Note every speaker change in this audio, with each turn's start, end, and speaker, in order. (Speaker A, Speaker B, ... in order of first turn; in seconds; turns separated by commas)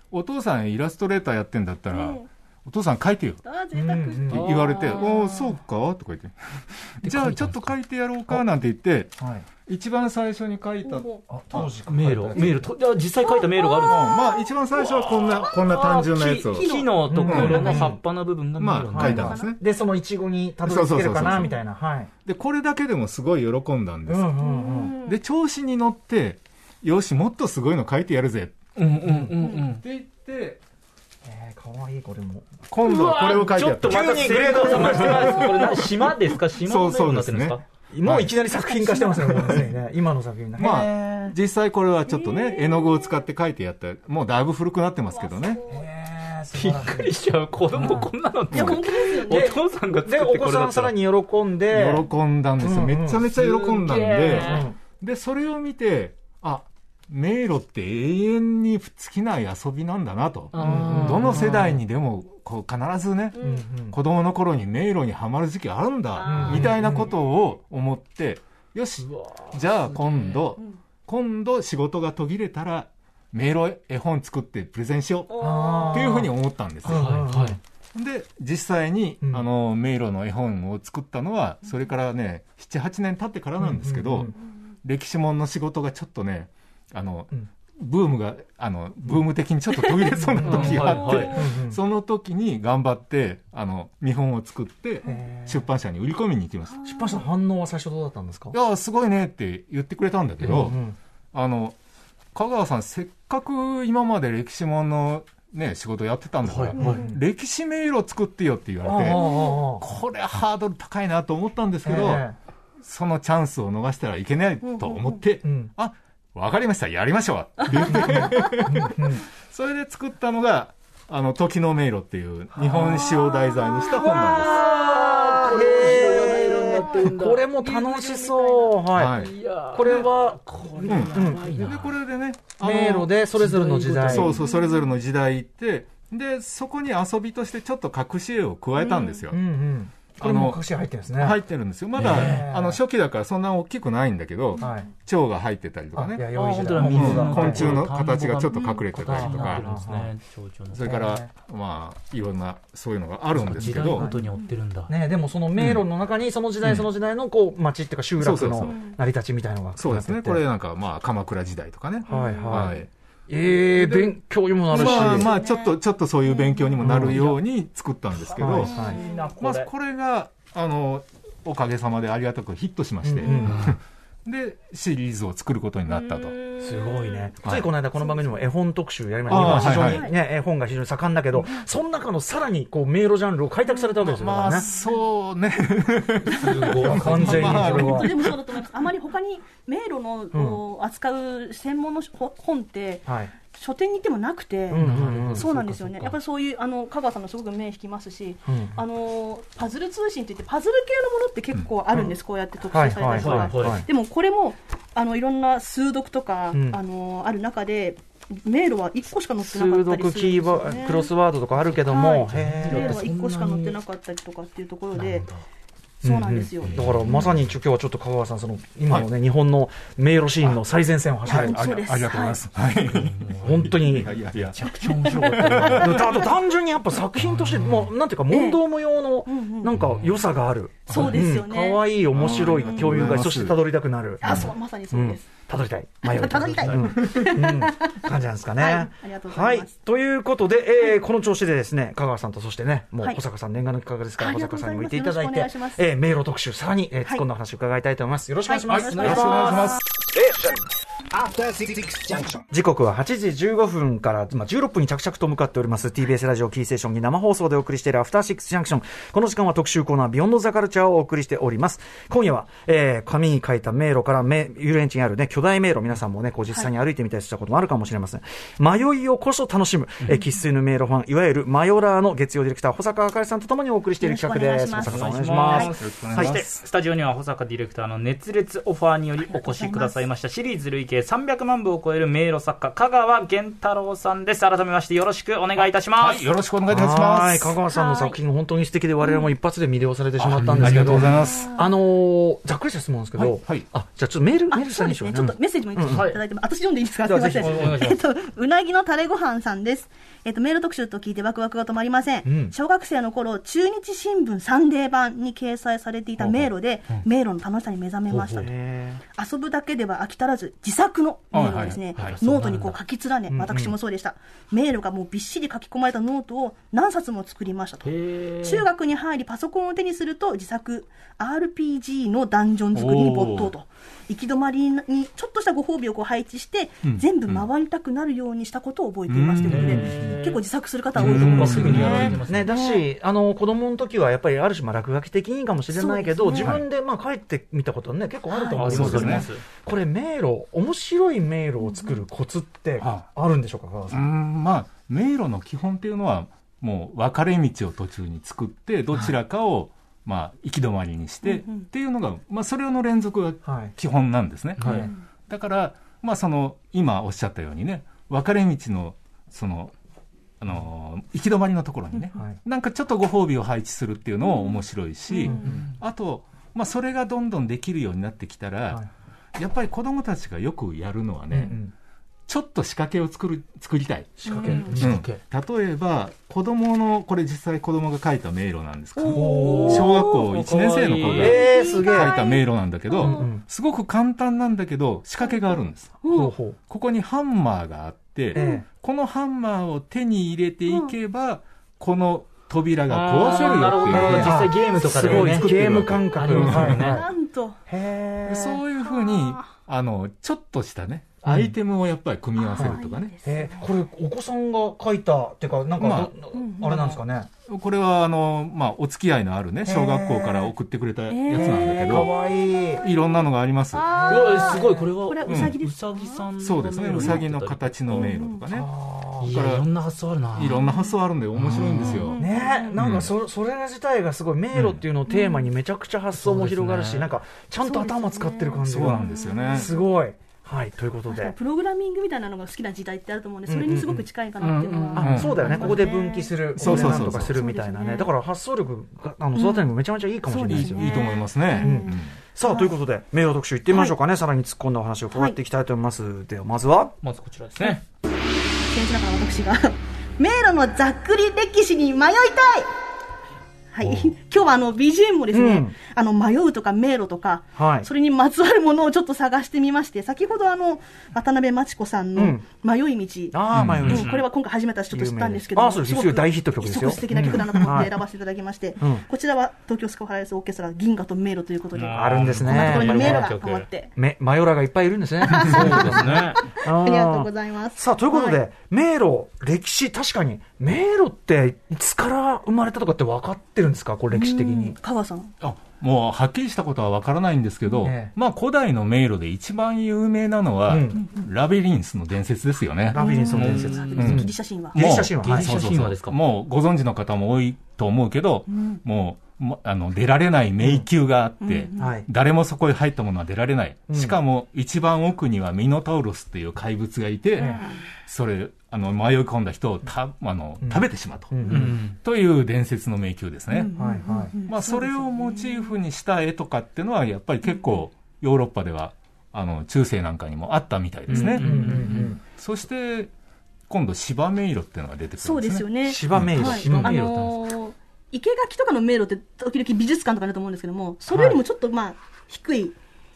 Speaker A: 0.1-3.4, Speaker B: 1.9-2.3, Speaker B: 3.4-5.0, Speaker C: 3.7-4.5, Speaker D: 4.3-5.6, Speaker A: 4.3-11.7, Speaker D: 7.0-7.8, Speaker C: 9.2-9.4, Speaker B: 10.8-11.2, Speaker C: 11.3-12.7, Speaker D: 11.9-14.1, Speaker B: 13.2-15.7, Speaker A: 13.8-17.9, Speaker D: 15.4-19.3, Speaker B: 16.5-17.9, Speaker C: 17.1-18.0, Speaker A: 18.6-19.6, Speaker C: 18.9-22.1, Speaker B: 19.1-19.5, Speaker A: 20.6-21.6, Speaker A: 22.2-24.3, Speaker C: 24.1-25.0, Speaker B: 24.4-25.2, Speaker A: 25.0-30.6, Speaker D: 28.8-29.8, Speaker C: 29.1-29.3, Speaker C: 31.2-32.5, Speaker A: 32.7-35.9, Speaker D: 32.8-37.6, Speaker C: 33.8-35.9, Speaker A: 36.6-38.3, Speaker C: 37.9-41.4, Speaker B: 38.6-39.3, Speaker A: 39.4-39.6, Speaker A: 40.6-45.6, Speaker B: 42.1-43.3, Speaker B: 45.1-45.9, Speaker C: 45.7-47.1, Speaker D: 46.5-51.0, Speaker C: 47.8-48.6, Speaker B: 48.5-49.6, Speaker C: 49.2-52.1, Speaker A: 51.7-77.2, Speaker C: 52.6-53.4, Speaker D: 53.3-54.7, Speaker C: 54.3-54.8, Speaker D: 60.5-61.8, Speaker C: 60.6-61.8, Speaker B: 63.4-63.6, Speaker C: 63.4-64.0, Speaker B: 66.2-67.1, Speaker C: 66.3-67.1, Speaker D: 66.5-66.8, Speaker D: 69.0-70.5, Speaker B: 75.3-76.2, Speaker C: 75.4-76.3, Speaker C: 76.8-77.6, Speaker D: 76.8-77.6, Speaker A: 77.9-96.8, Speaker C: 79.2-79.5, Speaker C: 83.6-84.3, Speaker C: 90.2-91.8, Speaker D: 90.4-91.5, Speaker B: 90.9-91.4, Speaker C: 95.0-95.7, Speaker B: 96.7-97.3, Speaker C: 96.8-98.6, Speaker A: 98.5-100.8, Speaker C: 100.4-101.0, Speaker A: 101.3-101.8, Speaker A: 102.3-109.2, Speaker D: 106.4-107.0, Speaker C: 106.8-107.2, Speaker C: 108.8-109.9, Speaker B: 109.1-109.6, Speaker A: 109.8-112.2, Speaker C: 111.8-112.4, Speaker A: 112.8-124.7, Speaker B: 114.6-115.2, Speaker C: 115.4-115.7, Speaker B: 117.9-118.5, Speaker C: 117.9-119.2, Speaker C: 122.5-123.2, Speaker B: 123.2-124.5, Speaker C: 123.9-131.5, Speaker D: 124.3-127.5, Speaker B: 125.5-128.8, Speaker A: 128.9-129.3, Speaker D: 129.1-132.0, Speaker A: 130.8-139.4, Speaker C: 132.6-134.4, Speaker D: 133.4-134.3, Speaker B: 134.2-134.9, Speaker B: 138.8-139.2, Speaker C: 139.3-141.4, Speaker A: 140.2-140.6, Speaker A: 141.2-149.6, Speaker D: 142.0-142.5, Speaker C: 142.0-142.8, Speaker C: 144.6-144.9, Speaker C: 145.9-147.9, Speaker D: 146.3-150.9, Speaker B: 148.5-148.8, Speaker C: 148.9-150.1, Speaker A: 150.7-154.1, Speaker C: 150.8-151.3, Speaker C: 153.4-154.2, Speaker D: 153.4-154.9, Speaker C: 154.9-160.4, Speaker A: 155.6-155.8, Speaker A: 158.2-158.8, Speaker B: 158.6-159.0, Speaker A: 159.8-162.9, Speaker C: 162.1-165.3, Speaker B: 162.1-162.8, Speaker A: 163.7-164.2, Speaker A: 164.7-176.3, Speaker B: 164.7-166.7, Speaker C: 166.8-167.4, Speaker D: 168.2-169.7, Speaker C: 168.4-169.0, Speaker B: 168.7-169.2, Speaker C: 173.0-173.8, Speaker B: 173.2-173.6, Speaker D: 173.5-173.7, Speaker D: 175.9-177.3, Speaker C: 176.6-184.7, Speaker A: 179.3-180.1, Speaker B: 179.3-180.2, Speaker B: 183.7-184.9, Speaker A: 184.1-188.4, Speaker D: 186.3-187.8, Speaker C: 186.7-188.1, Speaker B: 187.2-215.3, Speaker C: 190.3-190.6, Speaker C: 193.1-193.3, Speaker C: 194.7-195.5, Speaker D: 194.8-196.2, Speaker C: 198.5-198.8, Speaker C: 202.7-203.9, Speaker D: 203.2-203.8, Speaker C: 206.5-206.8, Speaker C: 209.4-213.0, Speaker D: 212.3-213.8, Speaker D: 214.9-215.4, Speaker B: 216.0-216.8, Speaker C: 216.0-221.6, Speaker D: 216.6-217.3, Speaker B: 221.3-222.4, Speaker A: 221.3-226.1, Speaker D: 222.9-226.1, Speaker C: 223.4-224.1, Speaker B: 224.7-226.2, Speaker C: 225.6-249.6, Speaker D: 227.3-227.9, Speaker B: 228.3-228.6, Speaker B: 229.3-229.8, Speaker D: 229.8-230.1, Speaker B: 230.9-231.9, Speaker A: 230.9-231.2, Speaker A: 232.1-233.6, Speaker B: 232.6-232.9, Speaker B: 234.2-235.3, Speaker A: 234.2-234.5, Speaker B: 236.0-238.0, Speaker D: 236.6-236.9, Speaker B: 238.6-239.7, Speaker B: 244.2-245.8, Speaker B: 248.5-249.8, Speaker A: 248.7-249.8, Speaker D: 249.0-249.7, Speaker C: 250.1-250.6, Speaker C: 252.3-276.4, Speaker B: 274.0-275.7, Speaker D: 274.9-286.3, Speaker A: 275.8-276.7, Speaker B: 279.2-280.1, Speaker A: 286.0-287.6, Speaker C: 286.7-296.1, Speaker B: 287.7-288.2, Speaker B: 289.0-289.3, Speaker D: 290.3-291.1, Speaker A: 290.6-291.6, Speaker B: 291.2-291.6, Speaker A: 293.2-293.7, Speaker B: 294.5-308.5, Speaker D: 295.9-296.2, Speaker C: 297.1-297.9, Speaker D: 297.4-298.0, Speaker C: 302.2-302.5, Speaker D: 308.1-308.5, Speaker C: 308.4-309.0, Speaker B: 309.1-332.9, Speaker A: 311.3-312.2, Speaker D: 312.0-312.8, Speaker C: 313.3-313.8, Speaker D: 317.9-318.7, Speaker A: 322.7-323.5, Speaker A: 326.8-327.4, Speaker A: 329.1-330.1, Speaker D: 329.4-330.4, Speaker C: 329.6-330.1, Speaker D: 330.9-332.5, Speaker A: 331.0-332.2, Speaker C: 331.2-344.0, Speaker B: 335.7-336.6, Speaker B: 338.3-338.6, Speaker D: 338.6-339.4, Speaker A: 338.6-339.3, Speaker B: 341.6-342.0, Speaker A: 343.9-359.7, Speaker B: 351.2-351.6, Speaker C: 353.4-353.7, Speaker D: 354.6-354.9, Speaker A: 360.4-368.9, Speaker B: 364.3-364.6, Speaker B: 365.1-365.5, Speaker C: 365.2-365.6, Speaker A: 369.4-371.6, Speaker C: 371.3-371.7, Speaker A: 372.3-386.0, Speaker C: 374.2-375.0, Speaker B: 374.2-374.8, Speaker D: 374.4-375.2, Speaker B: 379.0-380.3, Speaker C: 379.1-380.1, Speaker D: 379.4-381.5, Speaker C: 381.0-382.2, Speaker B: 381.2-383.3, Speaker C: 382.9-383.4, Speaker B: 386.0-386.3, Speaker C: 386.1-386.6, Speaker A: 386.7-396.8, Speaker C: 388.3-388.6, Speaker B: 388.4-388.6, Speaker B: 390.7-390.9, Speaker D: 392.9-397.0, Speaker C: 393.9-397.1, Speaker B: 396.8-397.6, Speaker C: 397.7-398.6, Speaker A: 398.2-403.1, Speaker B: 398.8-399.5, Speaker C: 401.2-401.5, Speaker B: 402.4-403.7, Speaker C: 402.6-407.3, Speaker A: 405.8-406.1, Speaker B: 406.3-407.0, Speaker A: 407.5-412.1, Speaker C: 409.6-410.5, Speaker B: 411.1-413.1, Speaker C: 411.3-412.9, Speaker A: 412.8-413.9, Speaker B: 413.7-416.3, Speaker C: 413.9-414.9, Speaker D: 414.0-418.1, Speaker A: 415.3-415.6, Speaker A: 416.4-418.7, Speaker B: 417.9-418.4, Speaker C: 418.5-419.4, Speaker D: 419.2-420.7, Speaker A: 419.2-419.7, Speaker A: 420.3-422.2, Speaker B: 420.6-421.0, Speaker D: 421.4-422.1, Speaker B: 421.8-422.8, Speaker C: 422.2-431.4, Speaker A: 422.8-423.1, Speaker A: 424.5-424.9, Speaker B: 425.1-425.5, Speaker D: 426.1-427.1, Speaker B: 427.6-429.9, Speaker A: 428.6-429.7, Speaker B: 431.1-438.1, Speaker C: 433.5-434.1, Speaker D: 434.4-435.6, Speaker C: 434.9-446.9, Speaker A: 435.0-435.6, Speaker A: 436.6-437.4, Speaker B: 439.4-442.8, Speaker A: 440.5-442.1, Speaker B: 443.7-443.9, Speaker D: 447.0-447.8, Speaker B: 448.7-452.7, Speaker B: 453.7-473.9, Speaker C: 455.3-455.8, Speaker C: 457.6-457.9, Speaker C: 462.2-462.4, Speaker C: 463.3-464.1, Speaker A: 463.5-464.0, Speaker D: 463.6-464.3, Speaker C: 464.9-468.0, Speaker C: 468.8-469.1, Speaker D: 471.8-473.7, Speaker C: 471.9-473.4, Speaker C: 473.9-484.8, Speaker B: 475.2-478.4, Speaker D: 475.4-476.4, Speaker B: 484.1-485.3, Speaker A: 485.4-513.7, Speaker C: 487.8-488.1, Speaker C: 490.7-491.0, Speaker C: 492.9-495.5, Speaker B: 492.9-494.8, Speaker D: 493.3-494.2, Speaker D: 495.2-496.2, Speaker B: 498.5-498.8, Speaker C: 500.6-500.9, Speaker B: 501.4-502.0, Speaker C: 501.8-502.1, Speaker C: 503.9-504.2, Speaker C: 507.4-507.6, Speaker C: 510.6-511.8, Speaker D: 511.4-512.0, Speaker B: 513.5-515.8, Speaker C: 513.8-514.3, Speaker A: 514.5-523.1, Speaker C: 521.1-522.2, Speaker D: 521.1-522.1, Speaker B: 521.1-521.4, Speaker A: 523.7-526.5, Speaker B: 525.2-532.8, Speaker C: 525.8-527.1, Speaker D: 526.4-527.4, Speaker C: 531.1-531.4